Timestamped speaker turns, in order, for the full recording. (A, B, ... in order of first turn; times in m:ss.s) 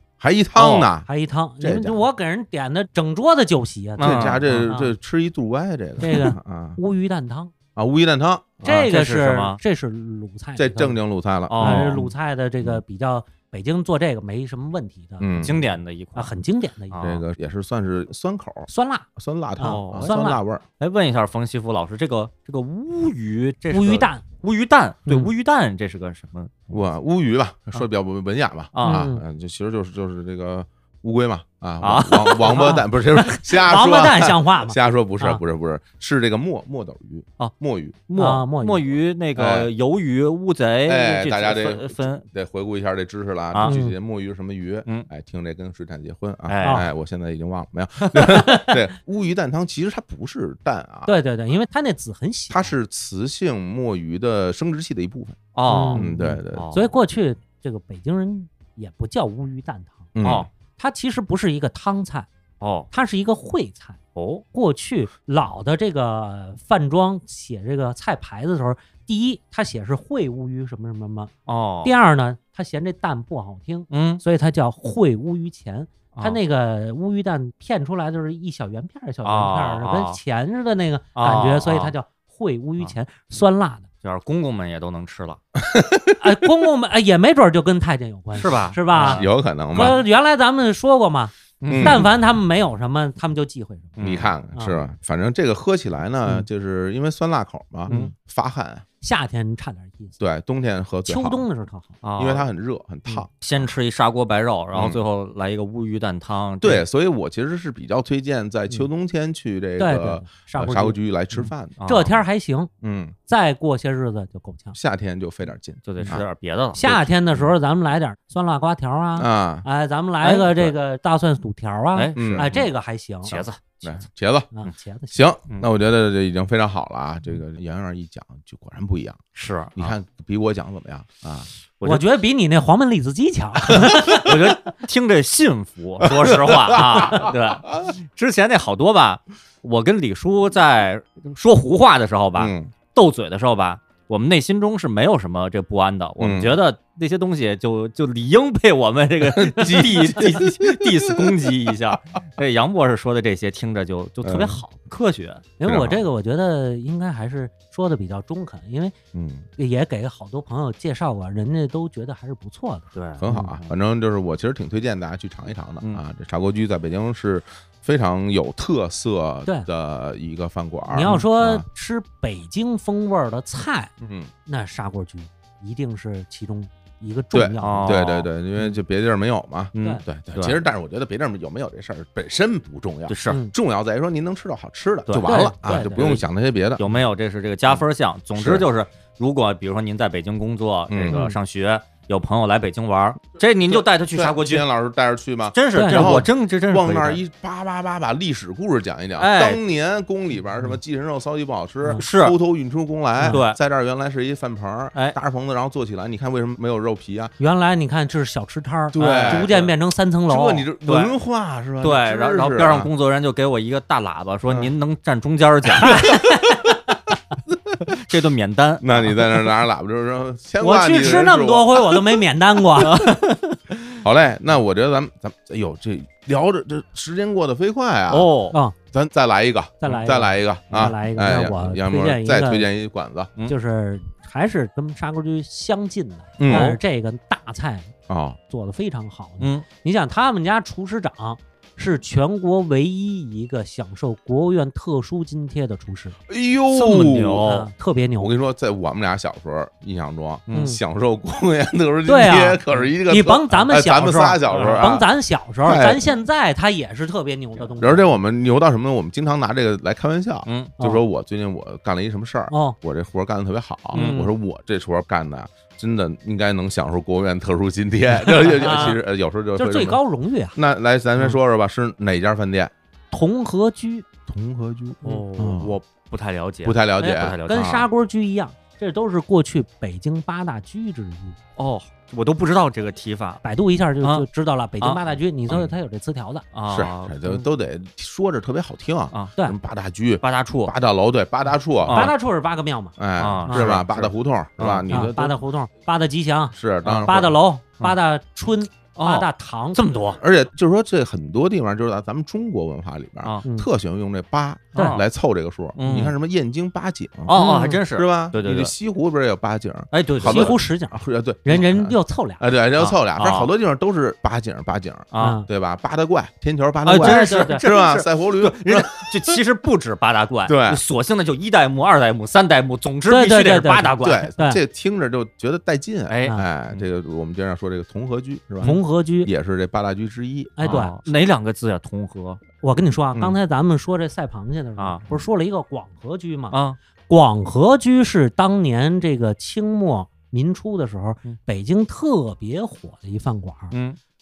0:00.2-0:01.1 A
0:00.6-0:00.9 B
0:01.0-0:04.9 C
0:01.6-0:02.0 A
0:04.0-0:04.7 B
0:04.0-0:06.8 A
0:06.0-0:07.5 C
0:07.8-0:08.8 A
0:08.6-0:11.0 C
0:08.6-0:09.6 B
0:10.6-0:12.8 A
0:11.5-0:12.0 B
0:11.6-0:15.5 C
0:15.2-0:15.6 A
0:15.4-0:16.4 B
0:16.1-0:17.0 C
0:16.9-0:17.2 B
0:17.0-0:20.6 A
0:18.7-0:19.1 C
0:19.6-0:20.4 C
0:19.6-0:20.1 B
0:20.8-0:26.7 B
0:23.7-0:24.2 C
0:26.7-0:38.0 A
0:28.7-0:29.1 B
0:28.8-0:29.2 C
0:31.8-0:32.8 B
0:32.4-0:35.4 C
0:38.1-0:42.2 B
0:38.2-0:38.9 C
0:39.4-0:39.7 A
0:40.8-0:51.1 A
0:43.6-0:43.9 C
0:46.5-0:46.8 B
0:48.3-0:48.8 C
0:51.0-0:52.7 C
0:52.5-0:56.7 A
0:55.5-0:56.9 B
0:55.7-1:00.1 C
1:00.1-1:00.5 A
1:00.2-1:00.5 B
1:00.7-1:02.3 C
1:02.6-1:02.9 B
1:02.9-1:04.0 C
1:04.1-1:04.4 B
1:04.5-1:11.3 C
1:11.5-1:11.9 B
1:11.8-1:23.9 C
1:13.9-1:14.2 B
1:16.1-1:16.4 B
1:19.2-1:20.2 B
1:21.2-1:21.9 B
1:24.0-1:25.4 B
1:25.6-1:26.3 A
1:26.2-1:34.0 C
1:28.3-1:29.3 B
1:29.0-1:30.0 A
1:31.6-1:32.1 B
1:31.7-1:32.1 A
1:34.0-1:34.3 B
1:34.0-1:38.8 A
1:34.5-1:34.8 C
1:37.9-1:38.1 C
1:39.0-1:40.2 C
1:40.2-1:41.4 A
1:41.0-1:41.9 C
1:42.0-1:42.5 B
1:42.2-1:43.3 A
1:43.4-1:46.8 B
1:44.7-1:45.0 A
1:46.6-1:51.8 A
1:49.8-1:52.7 C
1:51.8-1:52.1 B
1:52.8-1:53.1 A
1:53.3-1:54.8 C
1:54.7-1:56.2 A
1:55.8-1:56.8 B
1:56.7-2:03.4 C
1:56.8-1:57.5 A
1:59.2-1:59.6 A
2:00.2-2:00.7 B
2:01.9-2:02.7 B
2:02.1-2:02.5 A
2:03.2-2:03.6 B
2:03.8-2:04.5 A
2:04.5-2:05.2 C
2:05.1-2:09.2 A
2:09.3-2:09.9 B
2:09.8-2:11.5 A
2:11.8-2:12.0 B
2:11.8-2:14.7 C
2:14.0-2:35.4 B
2:16.0-2:17.9 A
2:22.4-2:22.7 A
2:26.2-2:26.6 A
2:29.2-2:31.7 A
2:34.2-2:34.6 A
2:35.6-2:38.9 C
2:35.6-2:36.0 A
2:39.1-2:39.4 A
2:39.6-2:43.5 C
2:42.9-2:43.7 B
2:43.2-2:51.6 A
2:50.9-2:53.9 C
2:54.0-2:54.3 A
2:54.4-2:58.7 C
2:57.3-3:06.8 A
2:57.6-2:58.3 B
2:59.8-3:00.6 B
3:03.1-3:03.4 B
3:03.3-3:03.5 C
3:05.1-3:06.2 B
3:05.2-3:06.1 C
3:06.8-3:14.7 B
3:08.3-3:08.7 A
3:10.9-3:11.4 A
3:13.7-3:27.3 A
3:15.5-3:17.2 B
3:15.7-3:16.1 C
3:19.2-3:19.6 B
3:22.0-3:22.4 B
3:23.3-3:23.6 B
3:27.4-3:30.7 C
3:28.9-3:29.7 A
3:29.0-3:29.7 B
3:30.3-3:32.9 A
3:30.8-3:31.1 B
3:31.8-3:36.1 B
3:34.4-3:34.7 A
3:35.8-3:36.3 A
3:35.8-3:36.7 C
3:37.8-3:39.4 B
3:38.8-3:42.0 A
3:40.6-3:43.0 C
3:42.8-3:43.9 B
3:44.0-3:48.3 A
3:48.1-3:48.6 B
3:48.9-3:53.3 A
3:49.8-3:52.7 C
3:53.5-3:57.9 C
3:56.4-3:56.8 A
3:56.5-3:56.8 B
3:58.1-3:58.4 A
3:58.5-4:06.2 C
3:59.4-3:59.6 B
4:06.3-4:07.5 A
4:06.7-4:07.7 B
4:07.4-4:08.3 C
4:08.2-4:15.1 A
4:10.5-4:10.8 C
4:12.0-4:18.1 C
4:14.5-4:14.8 B
4:15.6-4:16.1 A
4:17.8-4:30.0 A
4:20.4-4:20.7 B
4:22.5-4:22.8 C
4:23.9-4:24.3 C
4:23.9-4:24.2 B
4:28.3-4:29.0 C
4:29.6-4:30.6 C
4:30.5-4:32.7 A
4:33.1-4:34.0 C
4:34.3-4:35.8 A
4:35.0-4:37.8 B
4:36.6-4:37.8 A
4:37.0-4:41.4 C
4:41.6-4:43.4 B
4:43.4-4:46.4 C
4:46.5-4:47.4 B
4:46.7-4:52.1 A
4:50.2-4:50.7 B
4:51.8-4:52.1 B
4:51.9-4:52.9 C
4:53.0-4:55.4 A
4:53.2-4:55.1 B
4:53.5-4:53.8 C
4:54.9-4:59.8 C
4:56.5-4:57.4 A
4:56.8-4:57.1 B
4:59.0-5:00.2 B
5:00.2-5:07.4 A
5:04.7-5:05.0 B
5:05.8-5:06.1 B
5:07.3-5:08.7 B
5:07.3-5:07.8 C
5:07.9-5:19.4 A
5:09.9-5:10.6 B
5:10.2-5:12.5 C
5:12.8-5:13.5 B
5:15.1-5:15.4 B
5:15.2-5:15.5 C
5:16.8-5:17.6 C
5:16.9-5:24.3 B
5:20.4-5:20.8 A
5:23.1-5:24.6 C
5:24.0-5:30.8 A
5:26.1-5:26.8 B
5:28.6-5:29.3 C
5:30.6-5:31.0 C
5:30.6-5:32.4 B
5:32.6-5:36.6 C
5:34.8-5:35.0 B
5:36.5-5:36.8 B
5:37.1-5:43.7 C
5:43.7-5:44.0 B